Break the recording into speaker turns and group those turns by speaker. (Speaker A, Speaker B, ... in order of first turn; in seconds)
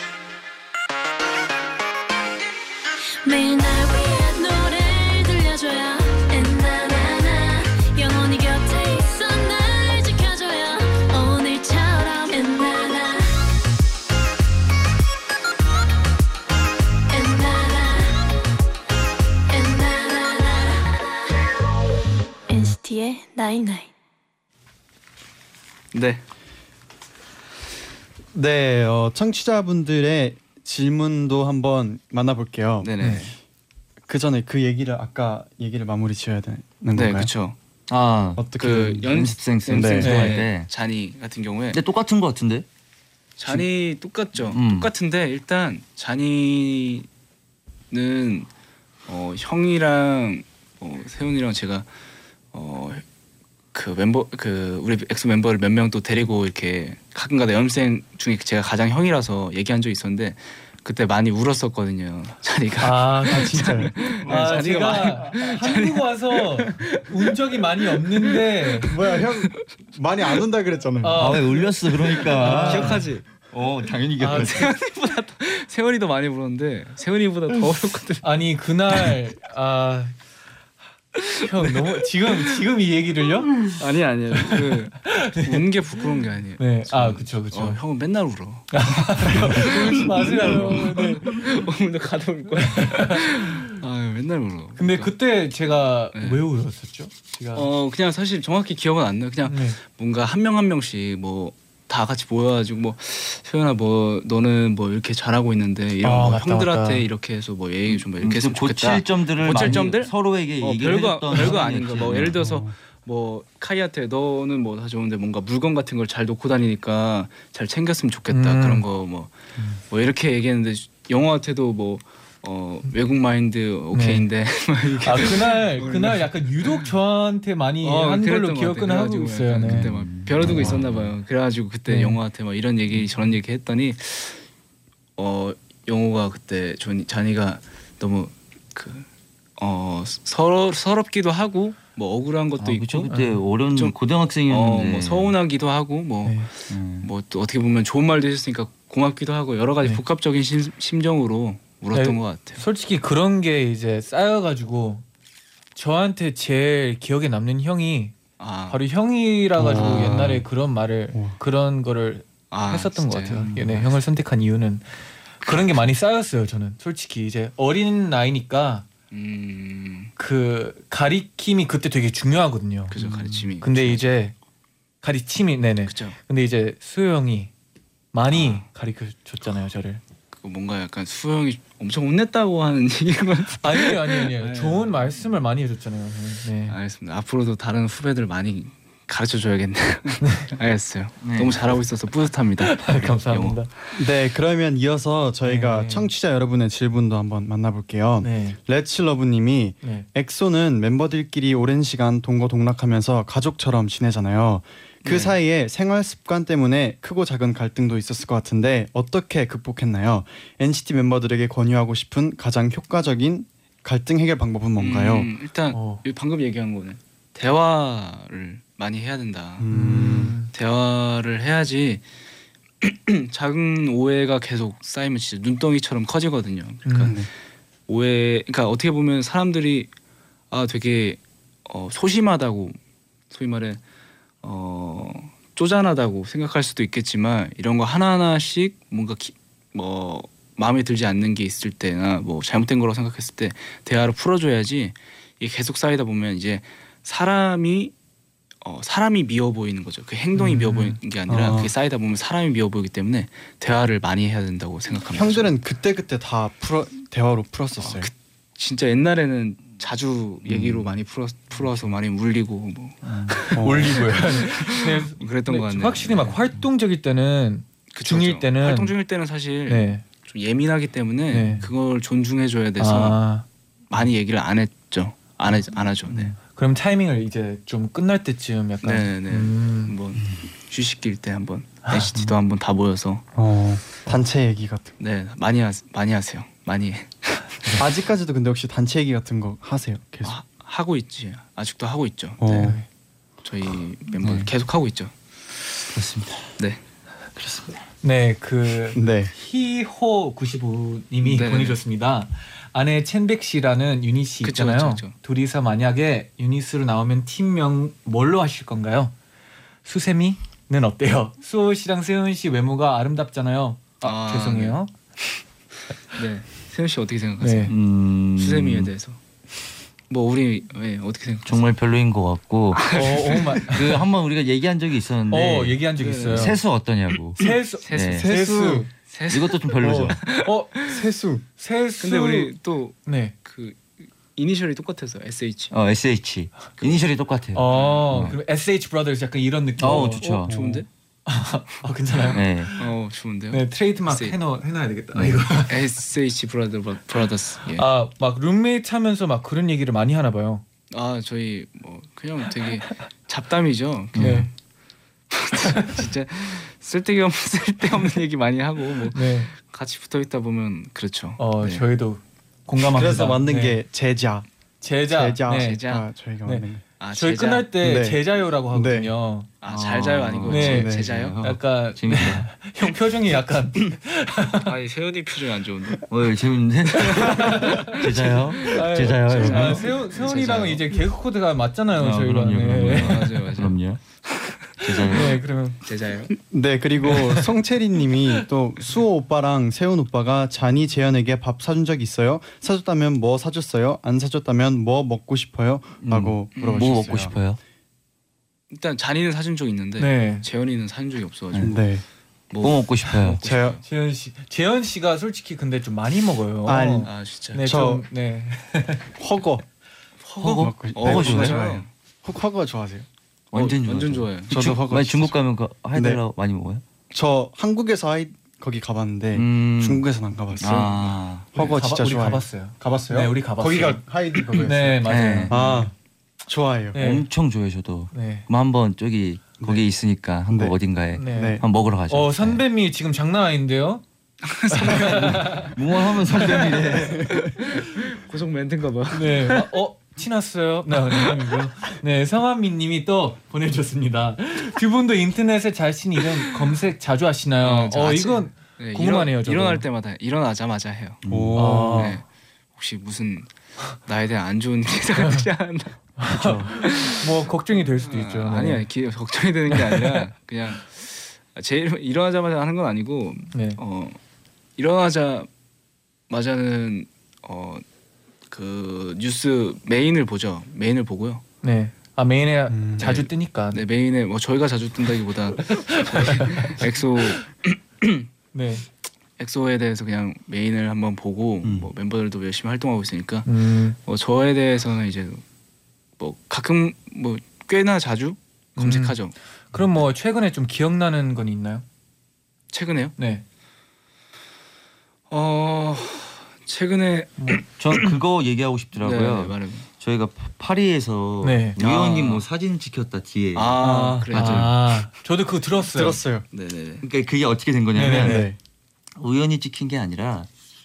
Speaker A: 3.2-13.3, 17.1-18.2, 19.5-21.2, 22.5-23.9
Speaker B: 25.9-26.2, 32.8-33.3, 37.0-37.6, 38.6-41.8, 43.4-47.1, 47.9-48.5, 49.1-51.9, 52.5-53.0, 53.7-67.3, 68.0-69.3, 72.1-73.2, 74.3-78.3, 81.2-82.6, 83.7-95.2, 96.1-96.4, 97.5-119.3, 119.9-126.9, 127.8-134.4, 135.2-139.1, 139.6-143.1, 143.7-152.6, 158.4-158.8, 159.7-160.3, 162.5-163.9, 165.4-165.7, 169.1-170.1, 172.9-174.1, 175.8-176.2, 178.3-178.6, 180.3-185.0, 186.7-193.7, 205.0-205.4, 214.8-219.7, 220.5-222.0, 222.8-227.2, 227.9-229.9, 230.5-232.8, 233.3-233.8, 234.4-247.9, 248.6-255.5, 257.8-266.4, 267.9-273.2, 273.9-276.4, 278.8-283.2, 285.0-287.6, 290.2-292.8, 293.4-295.1, 301.2-301.8, 304.4-305.1, 314.0-314.8, 316.1-319.2, 320.1-321.6, 322.8-323.6, 326.0-326.6, 327.8-328.3, 329.1-331.0, 332.0-335.7, 337.7-338.3, 339.9-340.9, 342.8-344.4, 345.7-347.9, 350.9-354.5, 355.3-361.8, 365.5-366.1, 367.0-367.7, 369.6-371.4, 374.6-376.1, 377.0-381.0, 383.0-383.8, 385.9-386.3, 396.6-397.1, 398.7-401.8, 402.5-403.8, 407.0-407.6, 410.2-411.9, 413.5-414.6, 420.6-421.0, 434.4-435.5, 436.4-439.7, 447.6-451.2, 451.8-453.5, 454.1-456.0, 456.7-457.3, 458.0-464.2, 464.8-465.5, 466.3-467.8, 468.5-471.4, 473.0-478.3, 479.4-485.4, 486.2-489.3, 492.7-493.2, 495.3-497.6, 499.0-499.9, 501.8-502.4, 503.6-504.8, 506.5-507.1
Speaker C: 28.3-32.9, 34.1-37.3, 38.4-40.1, 63.3-65.2, 68.9-71.4, 112.2-112.7, 159.6-160.4, 193.9-215.3, 219.6-220.4, 227.0-227.3, 251.3-251.7, 255.1-258.1, 263.5-264.1, 283.4-284.9, 287.8-290.4, 292.4-292.8, 298.9-299.3, 328.1-328.9, 329.8-330.2, 330.8-331.4, 340.5-340.8, 362.9-364.5, 365.0-366.8, 367.8-369.1, 370.6-371.1, 386.4-397.4, 401.6-402.0, 403.3-403.8, 406.6-407.1, 407.6-408.1, 409.2-409.6, 410.4-413.1, 414.5-415.4, 415.9-416.2, 417.1-421.0, 421.5-425.9, 426.5-427.0, 429.6-429.8, 430.5-431.6, 451.3-452.2, 456.3-456.7, 472.7-473.2, 505.9-506.4, 508.0-508.6
Speaker D: 33.0-33.3, 40.0-40.4, 62.8-68.9, 71.0-71.6, 72.3-73.1, 74.2-74.6, 78.2-80.1, 81.4-83.7, 84.4-85.6, 86.6-87.8, 88.7-91.4, 92.6-93.6, 94.8-97.7, 99.5-99.8, 106.0-107.1, 118.3-118.8, 123.9-124.3, 125.0-129.9, 130.4-130.7, 131.9-132.2, 143.1-143.4, 151.9-155.0, 155.8-158.1, 158.7-164.9, 165.4-168.9, 170.2-173.0, 173.6-174.3, 175.0-177.5, 178.1-180.0, 183.6-186.8, 190.2-190.5, 192.6-193.7, 195.4-196.1, 198.2-198.6, 215.7-216.0, 219.7-220.5, 226.8-227.2, 250.4-251.0, 263.4-268.9, 269.7-270.0, 271.3-271.7, 272.8-273.4, 276.4-279.9, 281.9-282.1, 292.5-292.9, 298.0-309.1, 309.9-314.9, 317.4-317.7, 322.9-324.0, 325.3-326.6, 327.4-328.9, 330.3-330.8, 331.6-332.5, 333.1-333.4, 337.5-340.4, 341.3-342.9, 343.5-345.8, 347.8-350.6, 354.2-354.5, 359.1-359.5, 361.4-363.8, 364.8-365.8, 366.4-369.5, 370.5-374.7, 377.4-378.0, 378.6-383.3, 385.1-385.8, 387.1-387.5, 400.0-400.5, 403.9-409.1, 421.6-425.9, 426.9-427.3, 428.1-428.5, 431.2-434.0, 434.7-435.7, 439.1-449.8, 451.6-452.2, 456.2-458.9, 459.7-460.2, 463.5-463.8, 471.6-473.8, 475.7-476.8, 478.5-478.9, 483.5-484.0, 488.8-489.2, 489.7-491.8, 493.2-493.4, 497.4-497.6, 501.4-501.8, 503.8-506.2, 507.9-508.5
Speaker E: 37.9-38.5, 39.1-40.7, 41.7-42.7, 44.4-44.9, 71.2-74.7, 107.9-112.4, 129.7-131.1, 142.6-145.3, 146.7-147.1, 173.0-173.5, 191.2-191.8, 260.5-260.9, 263.1-263.3, 294.2-294.5, 295.9-296.5, 297.4-297.8, 317.7-318.9, 321.4-328.3, 329.3-330.2, 335.7-338.4, 339.8-340.6, 342.3-342.7, 345.1-345.4, 354.2-354.5, 369.6-372.5, 376.1-379.9, 382.0-384.0, 384.8-385.4, 396.0-397.6, 402.6-403.4, 410.4-411.6, 413.5-416.8, 419.3-420.1, 420.6-421.5, 425.1-425.6, 426.9-432.6, 434.9-437.5, 451.2-451.8, 497.8-504.8, 507.0-508.5, 509.2-510.5